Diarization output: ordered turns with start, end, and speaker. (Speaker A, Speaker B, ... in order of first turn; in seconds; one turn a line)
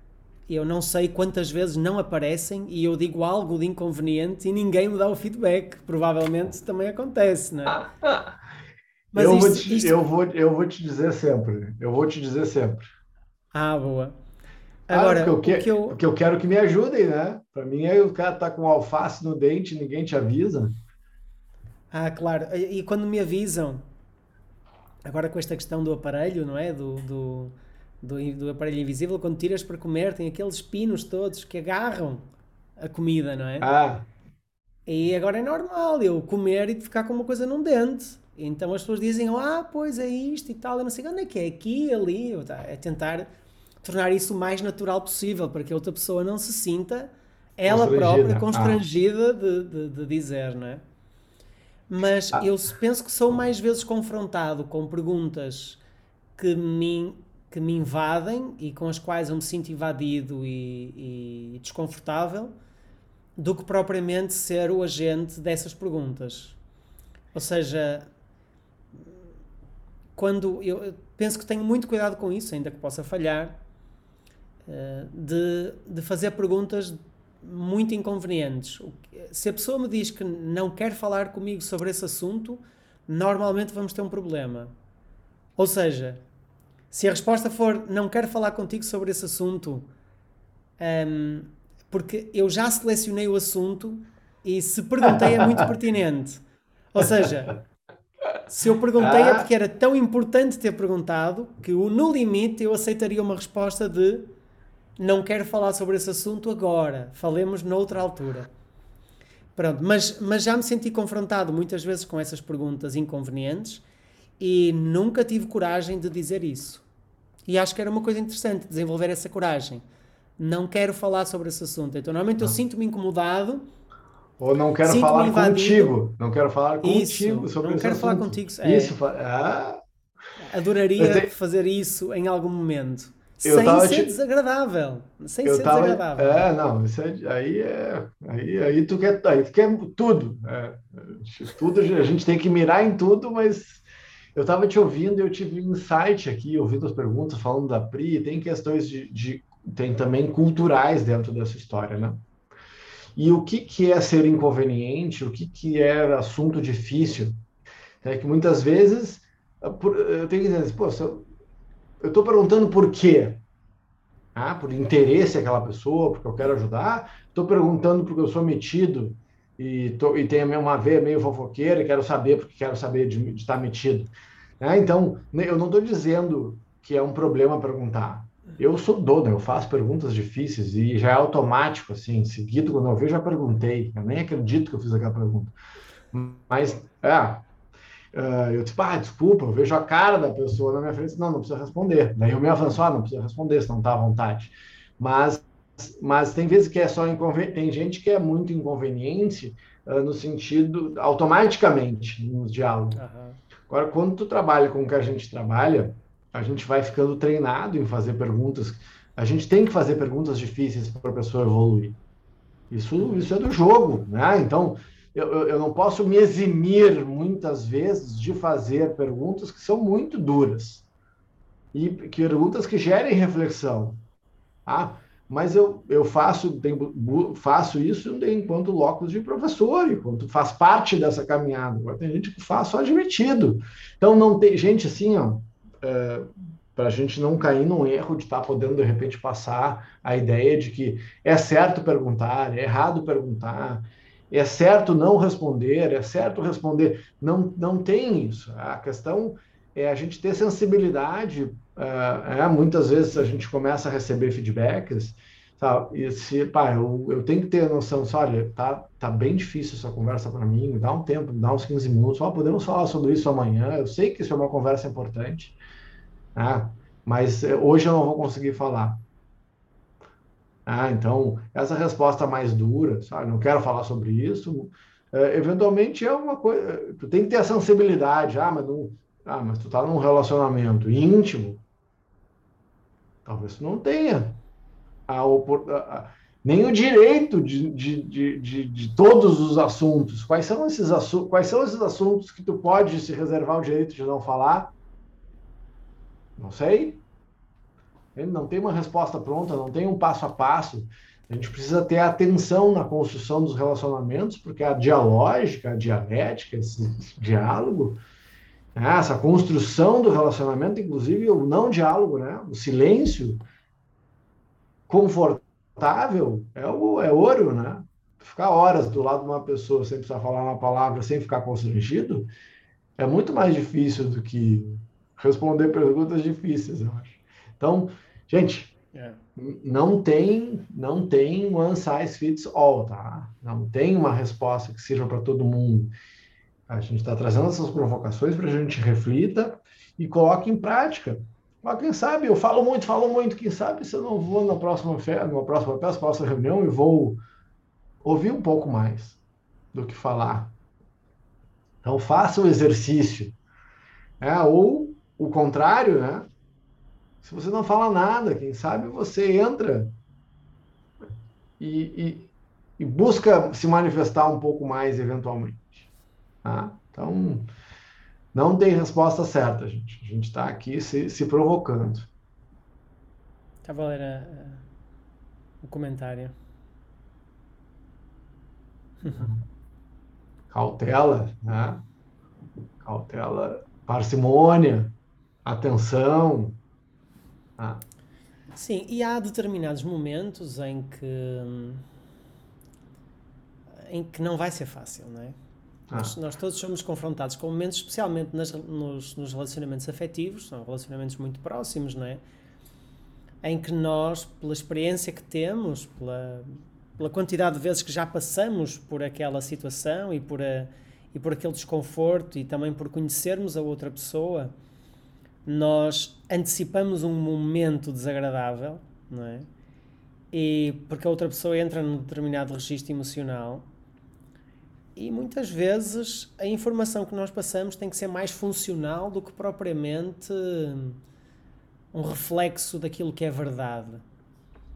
Speaker A: 0.5-7.9
Speaker B: 7.8-8.3
Speaker A: 9.1-10.0
Speaker B: 9.1-12.8
Speaker A: 13.5-14.1
Speaker A: 14.9-16.0
Speaker B: 14.9-20.8
Speaker A: 21.9-23.8
Speaker A: 25.0-32.2
Speaker A: 32.8-33.7
Speaker B: 33.6-34.1
Speaker A: 34.9-43.3
Speaker A: 43.8-50.8
Speaker B: 47.6-48.8
Speaker A: 51.9-55.8
Speaker A: 56.4-62.5
Speaker A: 63.4-66.6
Speaker A: 67.3-68.1
Speaker A: 70.2-73.6
Speaker A: 74.7-84.7
Speaker A: 85.6-86.2
Speaker A: 86.9-89.9
Speaker A: 90.8-97.6
Speaker B: 95.0-95.7
Speaker A: 98.5-104.3
Speaker B: 99.0-99.5
Speaker A: 105.0-108.5
Speaker A: 109.5-113.8
Speaker A: 114.4-116.8
Speaker A: 117.5-119.8
Speaker A: 120.4-123.7
Speaker B: 124.4-129.8
Speaker A: 124.8-125.9
Speaker A: 126.8-128.9
Speaker A: 130.4-136.5
Speaker B: 131.0-131.3
Speaker B: 133.4-134.2
Speaker B: 135.4-143.8
Speaker B: 144.3-152.2
Speaker B: 153.2-157.3
Speaker B: 158.0-161.2
Speaker B: 162.0-163.4
Speaker B: 164.3-185.5
Speaker B: 186.1-187.4
Speaker B: 188.1-203.0
Speaker A: 202.9-203.4
Speaker B: 203.7-212.0
Speaker B: 212.7-220.9
Speaker B: 221.7-224.0
Speaker B: 224.7-265.6
Speaker B: 266.3-269.0
Speaker B: 270.6-281.6
Speaker B: 283.2-284.4
Speaker B: 285.1-294.7
Speaker B: 296.4-297.0
Speaker B: 298.1-308.0
Speaker B: 308.7-313.4
Speaker B: 314.9-322.3
Speaker B: 323.0-328.7
Speaker A: 328.9-329.2
Speaker B: 329.4-335.9
Speaker B: 336.7-347.2
Speaker B: 348.0-349.2
Speaker B: 349.7-350.5
Speaker B: 351.8-353.4
Speaker B: 354.2-356.3
Speaker B: 357.2-359.9
Speaker B: 361.6-365.9
Speaker B: 366.4-367.5
Speaker B: 368.3-372.1
Speaker A: 373.6-374.6
Speaker A: 375.6-376.3
Speaker A: 379.0-379.3
Speaker B: 379.0-379.4
Speaker B: 380.5-381.8
Speaker B: 382.8-386.6
Speaker B: 387.6-387.8
Speaker A: 388.5-391.8
Speaker A: 393.9-395.4
Speaker B: 395.9-396.2
Speaker A: 395.9-402.2
Speaker A: 403.4-414.5
Speaker A: 415.4-419.5
Speaker A: 420.3-423.7
Speaker A: 424.9-431.0
Speaker A: 431.9-434.0